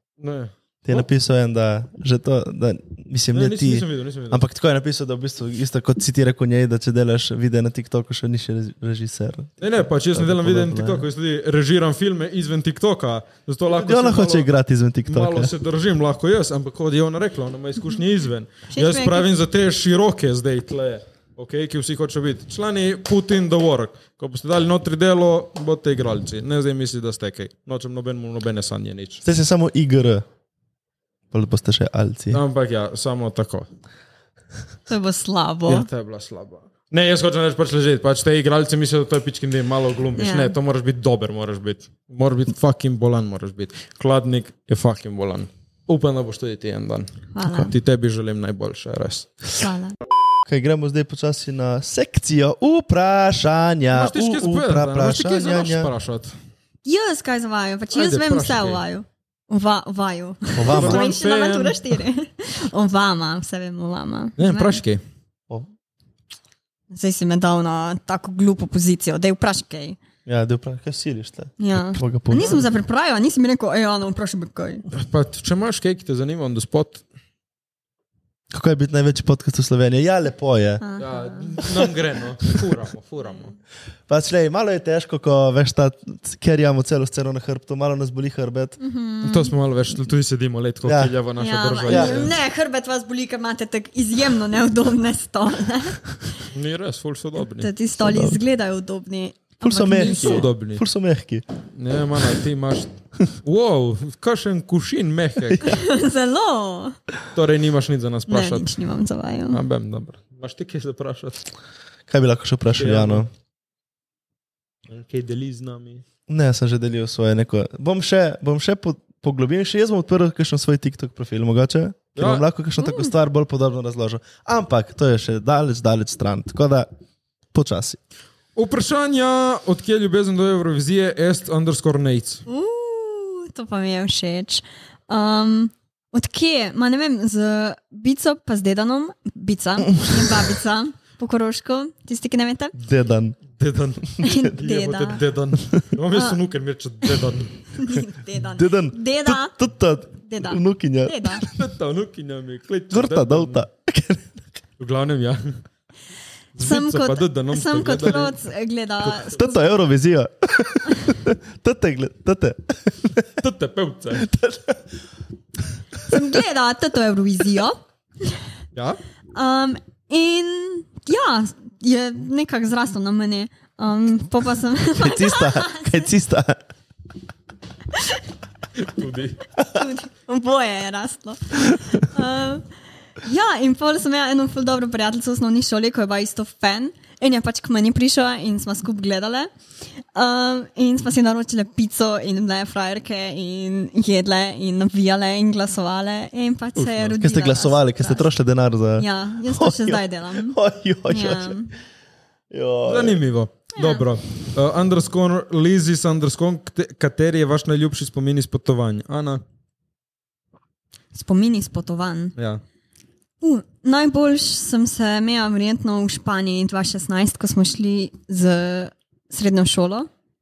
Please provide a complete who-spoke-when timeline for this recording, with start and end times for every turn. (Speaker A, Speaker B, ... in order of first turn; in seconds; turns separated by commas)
Speaker A: 0.2-1.0, Speaker B: 0.8-11.1, Speaker A: 3.3-4.4, Speaker A: 9.6-14.5, Speaker B: 13.7-15.5, Speaker A: 15.1-29.2, Speaker C: 18.7-19.3, Speaker B: 29.2-30.2, Speaker B: 31.3-32.4, Speaker A: 32.3-33.7, Speaker C: 34.9-35.9, Speaker A: 35.6-47.1, Speaker C: 40.1-40.5, Speaker C: 47.3-47.7, Speaker B: 47.4-47.7, Speaker A: 47.6-49.3, Speaker C: 49.6-50.0, Speaker B: 50.5-55.9, Speaker A: 53.9-56.4, Speaker C: 56.8-64.8, Speaker A: 57.9-58.8, Speaker B: 60.5-61.1, Speaker A: 60.7-62.0, Speaker A: 64.4-65.0, Speaker C: 66.9-70.0, Speaker B: 70.2-72.6, Speaker C: 71.6-74.8, Speaker A: 74.9-77.0, Speaker B: 78.5-80.8, Speaker C: 80.8-81.5, Speaker A: 81.0-83.5, Speaker B: 84.1-88.8, Speaker C: 88.8-89.5, Speaker A: 89.2-92.3, Speaker B: 90.8-91.1, Speaker C: 91.4-96.0, Speaker B: 91.8-92.3, Speaker A: 96.5-97.7, Speaker C: 97.5-100.4, Speaker B: 98.0-98.4, Speaker B: 99.6-101.4, Speaker A: 99.9-100.8, Speaker A: 101.7-102.9, Speaker A: 103.4-105.6, Speaker C: 105.6-107.0, Speaker A: 107.3-108.8, Speaker C: 108.3-109.6, Speaker A: 109.5-111.5, Speaker B: 112.1-113.3, Speaker A: 112.7-113.2, Speaker A: 114.9-116.0, Speaker B: 116.3-126.9, Speaker A: 122.2-122.5, Speaker C: 122.8-123.1, Speaker B: 127.5-128.0, Speaker A: 128.5-132.4, Speaker C: 132.5-142.7, Speaker B: 139.9-140.2, Speaker B: 142.8-143.4, Speaker A: 143.5-147.7, Speaker C: 144.2-145.2, Speaker C: 146.1-146.4, Speaker C: 147.8-149.5, Speaker B: 148.5-151.5, Speaker C: 150.2-151.4, Speaker A: 151.5-153.6, Speaker B: 152.9-154.4, Speaker A: 154.8-155.6, Speaker A: 156.6-158.3, Speaker C: 156.6-159.8, Speaker B: 159.0-163.3, Speaker A: 163.4-164.3, Speaker B: 164.2-164.9, Speaker B: 166.1-166.3, Speaker C: 166.1-168.4, Speaker C: 169.3-176.0, Speaker B: 175.0-176.6, Speaker C: 177.9-178.2, Speaker A: 178.8-179.4, Speaker C: 179.7-182.7, Speaker C: 183.2-189.5, Speaker C: 190.1-198.3, Speaker A: 196.8-197.2, Speaker B: 197.2-201.6, Speaker C: 199.0-200.6, Speaker C: 201.1-201.7, Speaker B: 202.5-203.2, Speaker A: 202.8-209.4, Speaker C: 203.8-204.0, Speaker C: 211.1-212.3, Speaker C: 213.4-220.1